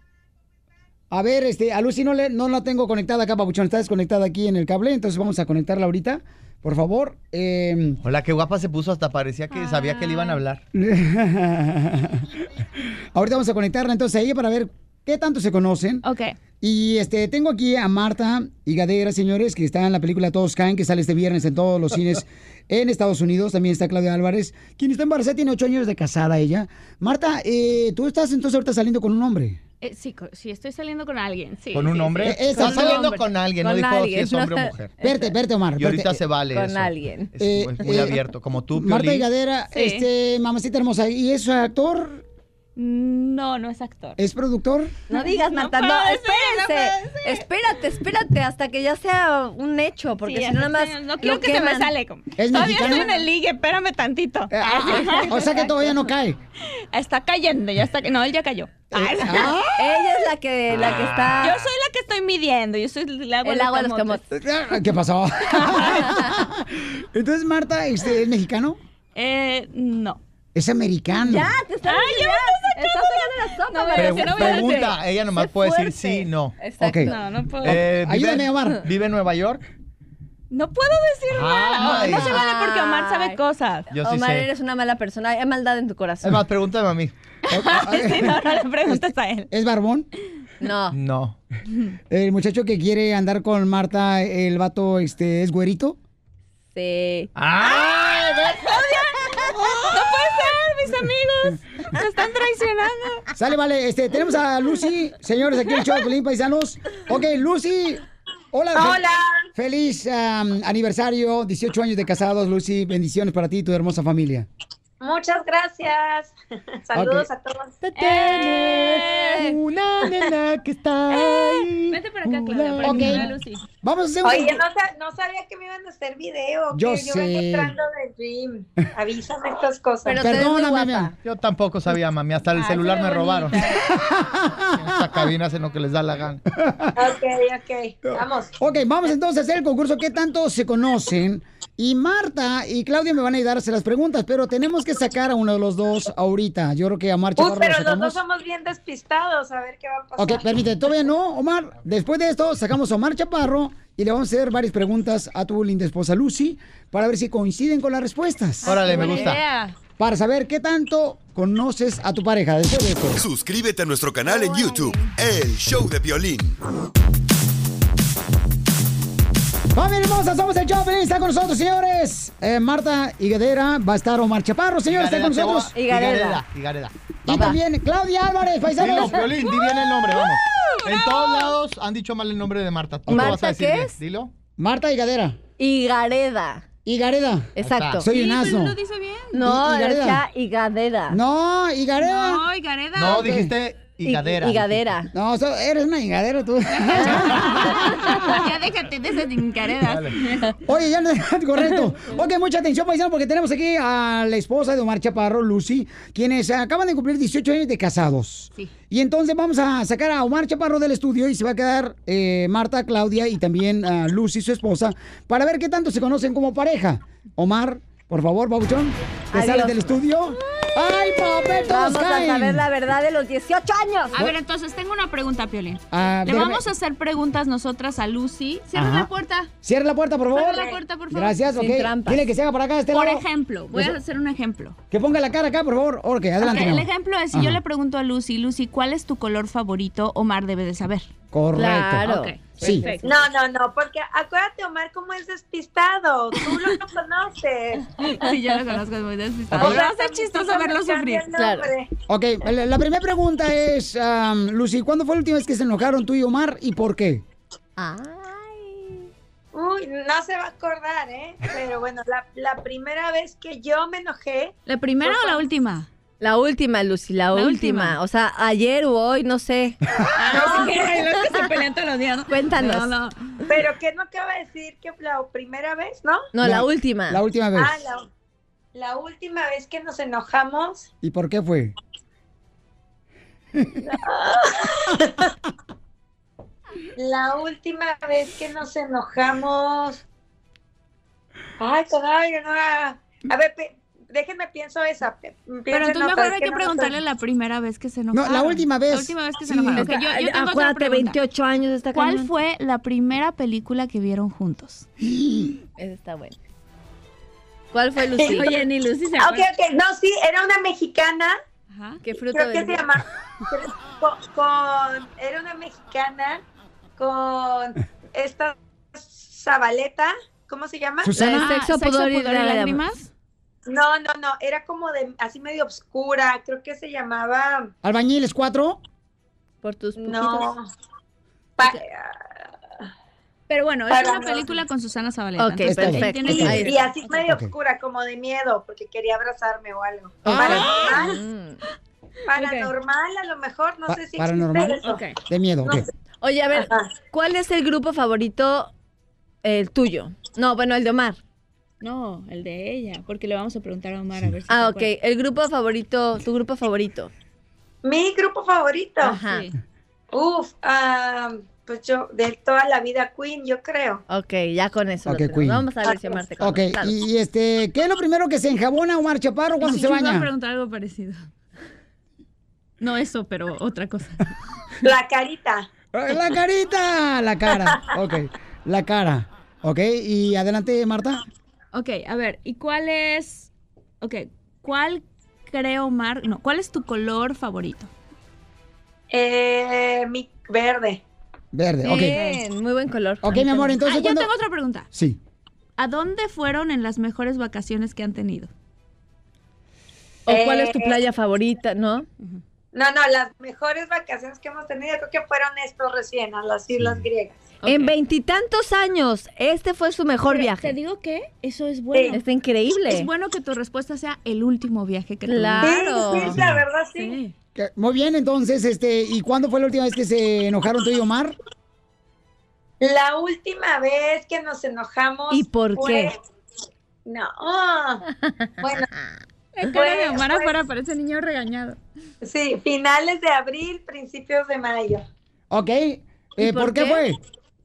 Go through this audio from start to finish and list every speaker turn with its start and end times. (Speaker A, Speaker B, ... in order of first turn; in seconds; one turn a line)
Speaker A: 1.1-8.0
Speaker B: 8.0-10.6
Speaker C: 9.5-10.4
Speaker A: 10.8-12.3
Speaker A: 13.2-16.0
Speaker C: 16.0-16.4
Speaker A: 16.6-29.6
Speaker C: 29.8-33.3
Speaker B: 31.7-35.0
Speaker A: 32.2-33.1
Speaker D: 33.6-35.3
Speaker A: 35.0-36.2
Speaker B: 35.8-39.3
Speaker D: 36.5-37.3
Speaker A: 37.4-42.2
Speaker C: 39.7-40.1
Speaker C: 42.8-44.2
Speaker A: 44.2-44.9
Speaker D: 45.1-52.0
Speaker C: 45.1-47.4
Speaker C: 50.2-55.6
Speaker A: 52.4-53.2
Speaker D: 52.6-53.1
Speaker A: 54.5-56.4
Speaker D: 55.0-55.8
Speaker C: 56.9-59.7
Speaker A: 58.9-59.7
Speaker D: 59.8-61.6
Speaker B: 60.8-61.3
Speaker C: 61.4-64.2
Speaker D: 63.4-64.2
Speaker A: 64.3-68.8
Speaker C: 69.2-70.2
Speaker A: 70.5-71.5
Speaker D: 71.2-77.5
Speaker C: 71.9-74.9
Speaker B: 74.0-76.6
Speaker A: 76.8-78.8
Speaker C: 77.0-77.8
Speaker B: 77.7-79.6
Speaker C: 80.5-83.8
Speaker B: 81.3-82.3
Speaker D: 81.8-86.4
Speaker B: 83.9-84.5
Speaker B: 86.2-87.1
Speaker C: 87.5-89.5
Speaker A: 87.5-90.1
Speaker D: 90.6-91.0
Speaker B: 90.9-91.4
Speaker A: 92.1-96.0
Speaker D: 96.7-97.3
Speaker B: 97.4-98.7
Speaker C: 98.8-99.0
Speaker C: 99.8-103.2
Speaker A: 103.4-114.5
Speaker E: 108.7-109.5
Speaker E: 115.0-117.8
Speaker A: 116.9-117.3
Speaker B: 117.8-123.3
Speaker C: 118.0-119.4
Speaker C: 121.1-123.6
Speaker A: 122.8-124.6
Speaker E: 124.2-130.3
Speaker A: 126.7-127.7
Speaker D: 130.1-131.1
Speaker A: 130.2-131.1
Speaker B: 131.2-133.6
Speaker C: 132.5-133.9
Speaker A: 133.9-135.2
Speaker B: 134.8-136.4
Speaker A: 136.6-136.9
Speaker E: 137.0-138.5
Speaker A: 138.1-148.2
Speaker E: 147.4-150.5
Speaker A: 150.2-159.1
Speaker C: 158.6-159.8
Speaker B: 158.7-159.4
Speaker A: 160.0-163.2
Speaker F: 163.2-166.6
Speaker C: 164.3-165.1
Speaker A: 169.8-175.8
Speaker B: 174.9-177.5
Speaker D: 175.7-176.4
Speaker A: 177.3-179.4
Speaker B: 178.8-184.3
Speaker C: 180.9-181.5
Speaker A: 183.1-183.4
Speaker D: 183.1-184.0
Speaker A: 184.6-185.4
Speaker D: 185.6-186.7
Speaker A: 186.8-188.8
Speaker D: 187.6-188.0
Speaker B: 187.6-188.0
Speaker C: 188.1-189.4
Speaker D: 189.3-191.2
Speaker A: 189.4-190.2
Speaker A: 191.1-192.5
Speaker C: 192.0-193.4
Speaker B: 193.0-194.9
Speaker A: 193.0-193.5
Speaker D: 194.0-195.1
Speaker A: 195.1-198.1
Speaker C: 196.7-200.5
Speaker D: 196.9-197.3
Speaker B: 199.9-200.1
Speaker A: 200.7-222.7
Speaker D: 219.3-220.0
Speaker D: 221.6-224.3
Speaker C: 224.1-229.5
Speaker A: 225.9-226.7
Speaker A: 228.7-229.1
Speaker A: 229.6-233.3
Speaker C: 230.3-231.5
Speaker E: 230.5-230.8
Speaker D: 231.5-232.2
Speaker C: 232.9-234.8
Speaker A: 234.9-237.6
Speaker C: 236.4-241.1
Speaker A: 241.3-243.0
Speaker D: 241.5-243.3
Speaker C: 242.0-243.0
Speaker E: 243.0-247.9
Speaker C: 248.0-251.3
Speaker E: 249.5-251.9
Speaker D: 251.3-251.7
Speaker A: 252.1-257.2
Speaker D: 257.8-259.1
Speaker E: 259.5-265.4
Speaker C: 264.7-265.9
Speaker D: 266.2-269.8
Speaker C: 267.3-268.0
Speaker C: 270.2-273.1
Speaker E: 270.3-271.0
Speaker D: 272.3-272.9
Speaker E: 273.5-276.3
Speaker D: 276.3-277.2
Speaker A: 276.4-277.8
Speaker E: 277.6-278.1
Speaker E: 278.7-280.9
Speaker A: 281.0-281.7
Speaker E: 283.9-285.1
Speaker E: 287.0-290.0
Speaker E: 291.6-297.0
Speaker C: 295.7-301.2
Speaker A: 298.1-299.9
Speaker D: 299.8-302.3
Speaker C: 301.9-304.9
Speaker A: 305.0-305.6
Speaker D: 305.8-306.4
Speaker D: 307.7-308.7
Speaker E: 308.2-308.5
Speaker C: 308.3-309.4
Speaker E: 309.2-311.4
Speaker C: 311.7-312.0
Speaker D: 312.0-312.9
Speaker E: 312.3-316.4
Speaker E: 317.0-321.2
Speaker A: 321.0-321.6
Speaker D: 321.1-322.8
Speaker C: 321.2-323.1
Speaker E: 323.7-327.7
Speaker A: 327.8-328.8
Speaker D: 329.6-330.5
Speaker E: 330.0-330.7
Speaker E: 331.6-332.4
Speaker C: 333.5-336.9
Speaker E: 333.9-334.6
Speaker D: 335.4-336.9
Speaker A: 335.6-337.5
Speaker E: 336.6-341.2
Speaker A: 340.3-340.8
Speaker D: 340.3-341.6
Speaker C: 340.3-341.1
Speaker E: 342.3-345.0
Speaker C: 342.3-342.7
Speaker A: 343.9-345.9
Speaker C: 344.8-345.2
Speaker D: 346.2-348.7
Speaker E: 346.6-347.0
Speaker D: 349.4-351.2
Speaker C: 351.8-354.9
Speaker D: 354.5-357.1
Speaker E: 357.8-359.2
Speaker D: 359.0-359.5
Speaker C: 359.0-359.6
Speaker E: 360.1-364.0
Speaker D: 364.1-366.9
Speaker A: 365.1-365.7
Speaker E: 365.9-366.2
Speaker A: 366.4-370.3
Speaker C: 369.6-371.3
Speaker C: 372.8-374.2
Speaker E: 374.8-375.7
Speaker A: 375.9-381.2
Speaker C: 381.7-383.5
Speaker C: 384.0-387.9
Speaker E: 389.1-391.0
Speaker A: 391.5-392.2
Speaker D: 391.8-393.8
Speaker C: 392.0-392.4
Speaker A: 393.2-394.3
Speaker C: 393.8-394.9
Speaker A: 394.9-395.2
Speaker C: 395.8-398.5
Speaker E: 400.3-401.0
Speaker D: 400.3-402.1
Speaker E: 402.7-407.4
Speaker C: 407.6-407.9
Speaker D: 407.6-410.8
Speaker C: 410.3-412.2
Speaker D: 412.1-413.1
Speaker C: 412.9-416.3
Speaker D: 415.2-416.4
Speaker E: 415.6-417.2
Speaker C: 417.0-417.3
Speaker A: 417.6-421.4
Speaker E: 422.8-426.2
Speaker D: 425.3-426.1
Speaker E: 427.1-428.0
Speaker D: 428.5-429.0
Speaker E: 428.6-428.9
Speaker C: 429.6-431.8
Speaker E: 429.7-430.6
Speaker E: 432.2-435.0
Speaker A: 435.5-437.2
Speaker D: 436.4-437.1